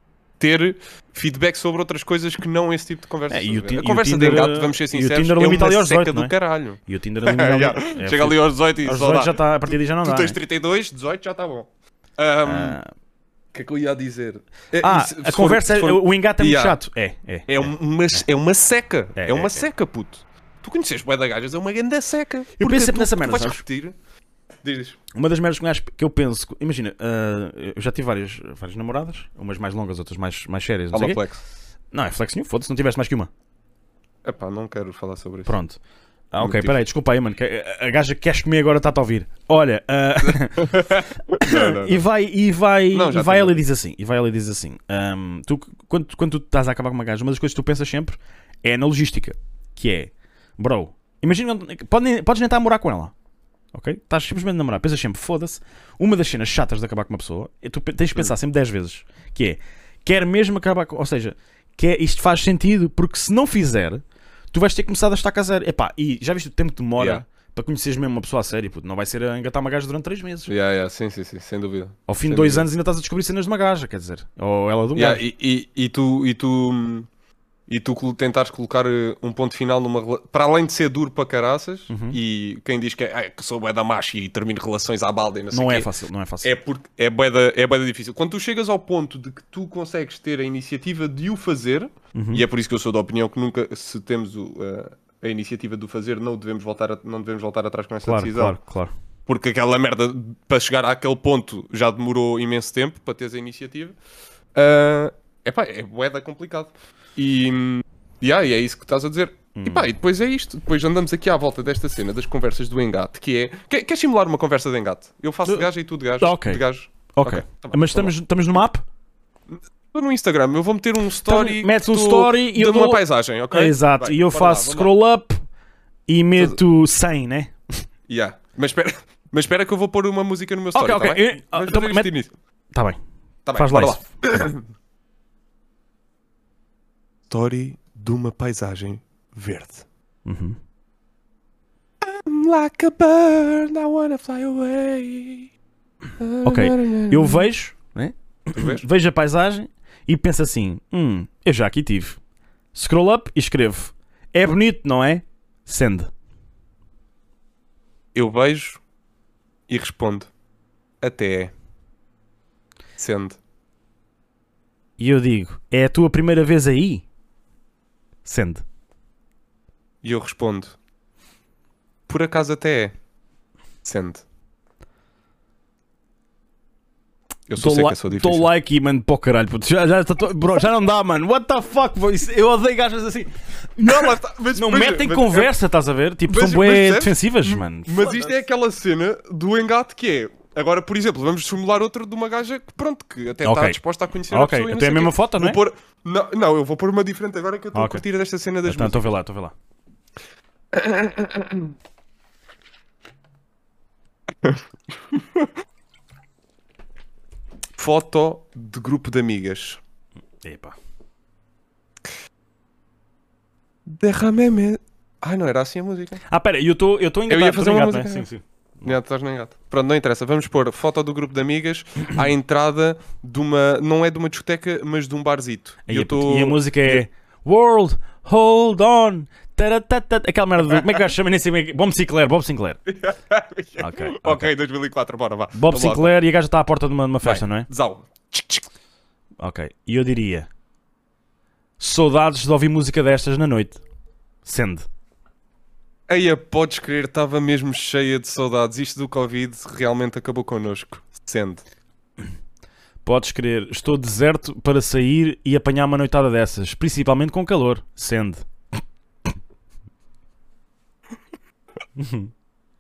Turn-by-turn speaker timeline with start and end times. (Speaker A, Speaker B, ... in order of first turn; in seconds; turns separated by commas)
Speaker A: 0.4-12.8, Speaker B: 3.3-10.4, Speaker B: 12.5-12.9, Speaker A: 13.5-16.8, Speaker B: 14.8-17.7, Speaker A: 17.5-23.9, Speaker B: 19.2-19.7, Speaker B: 22.6-23.6, Speaker A: 24.6-25.0, Speaker B: 25.1-31.2, Speaker A: 30.9-31.4, Speaker B: 31.9-33.3, Speaker A: 34.2-35.5, Speaker B: 35.5-35.8, Speaker B: 36.3-53.1, Speaker A: 36.4-36.8, Speaker A: 40.2-42.0, Speaker A: 42.9-43.6, Speaker B: 53.7-70.5, Speaker A: 70.5-72.7, Speaker B: 72.1-75.2, Speaker A: 74.9-77.1, Speaker A: 77.7-85.9, Speaker B: 81.9-82.2, Speaker B: 85.5-86.6, Speaker A: 86.4-98.6, Speaker B: 92.2-92.4, Speaker B: 98.0-98.9, Speaker A: 99.3-104.0, Speaker A: 104.5-118.1, Speaker B: 109.5-109.9, Speaker B: 116.2-118.8, Speaker A: 119.5-124.9, Speaker B: 121.2-125.4, Speaker B: 126.1-127.5, Speaker A: 128.1-132.3, Speaker B: 130.7-132.1, Speaker B: 132.7-133.0, Speaker A: 133.4-134.7, Speaker B: 133.6-134.0, Speaker A: 137.3-139.8, Speaker B: 140.2-140.6, Speaker A: 142.0-145.5, Speaker A: 146.2-147.5, Speaker B: 146.4-152.2, Speaker A: 148.6-148.8, Speaker B: 152.7-156.1, Speaker A: 158.2-158.8, Speaker A: 159.7-160.3, Speaker A: 161.0-161.5, Speaker A: 163.0-163.4, Speaker B: 165.0-167.1, Speaker B: 168.2-168.6, Speaker A: 170.0-170.8, Speaker A: 172.1-172.9, Speaker A: 173.8-174.2, Speaker A: 177.5-178.5, Speaker B: 177.6-188.3, Speaker A: 183.8-185.5, Speaker A: 186.3-199.1, Speaker B: 193.4-195.6, Speaker B: 197.7-198.0, Speaker B: 198.7-199.5, Speaker A: 200.7-201.7, Speaker A: 205.1-205.5, Speaker A: 207.8-209.8, Speaker B: 210.4-210.8, Speaker A: 213.9-216.2, Speaker B: 216.3-218.9, Speaker A: 217.3-218.3, Speaker A: 218.8-227.0, Speaker B: 225.9-232.8, Speaker A: 232.9-236.1, Speaker B: 233.8-234.5, Speaker B: 235.5-237.7, Speaker A: 237.2-238.7, Speaker B: 239.4-240.5, Speaker B: 241.8-243.8, Speaker B: 244.4-244.9, Speaker A: 246.1-251.6, Speaker B: 253.0-258.4, Speaker B: 262.0-262.3